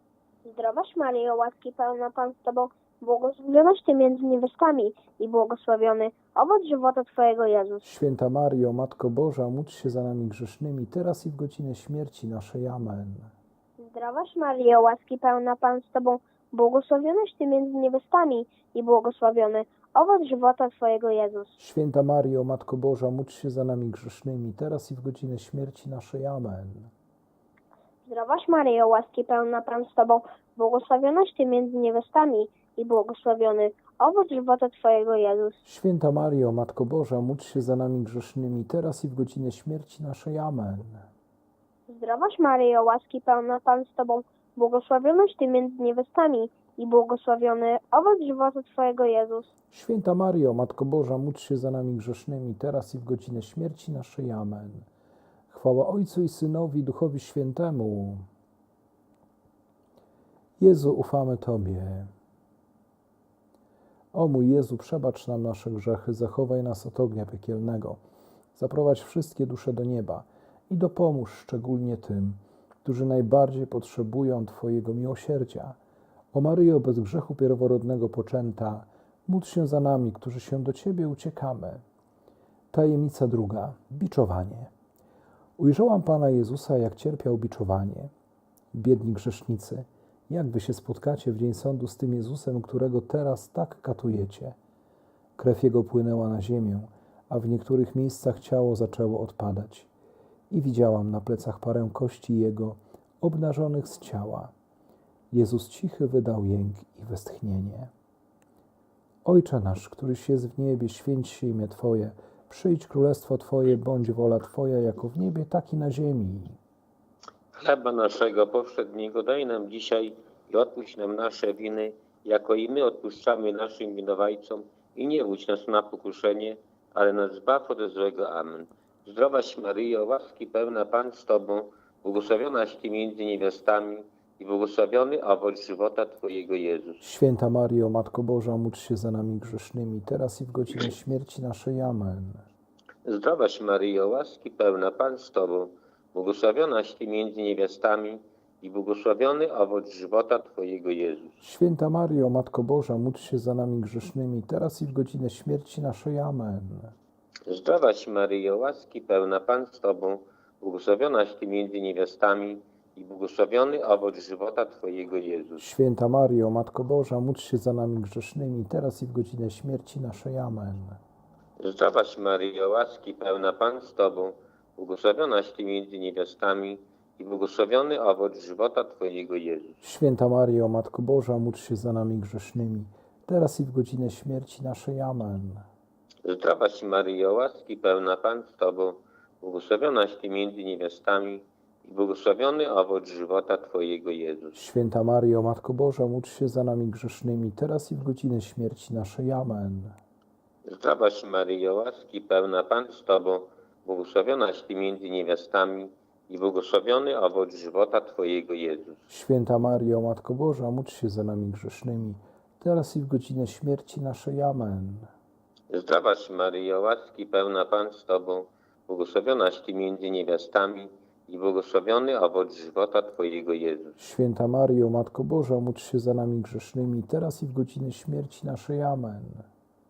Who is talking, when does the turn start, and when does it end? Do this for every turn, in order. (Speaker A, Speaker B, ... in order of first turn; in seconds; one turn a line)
Speaker A: 0.4-7.8
Speaker B: 7.8-13.3
Speaker A: 13.8-21.5
Speaker B: 21.6-26.9
Speaker A: 28.1-35.6
Speaker B: 35.6-41.0
Speaker A: 41.9-49.5
Speaker B: 49.7-54.9
Speaker B: 55.5-58.2
Speaker B: 60.6-62.1
Speaker B: 64.1-68.0
Speaker B: 68.5-75.8
Speaker B: 76.3-81.8
Speaker B: 82.7-84.7
Speaker B: 85.6-88.1
Speaker B: 88.7-94.5
Speaker B: 95.4-99.9
Speaker B: 100.5-104.5
Speaker B: 105.3-107.9
Speaker B: 109.2-116.6
Speaker C: 117.5-137.0
Speaker B: 137.0-142.4
Speaker C: 143.0-151.3
Speaker B: 151.4-156.9
Speaker C: 157.4-165.6
Speaker B: 165.6-171.0
Speaker C: 171.6-179.8
Speaker B: 179.8-185.7
Speaker C: 186.2-194.6
Speaker B: 194.5-200.0
Speaker C: 200.7-209.0
Speaker B: 209.1-215.1
Speaker C: 215.7-223.9
Speaker B: 224.0-229.5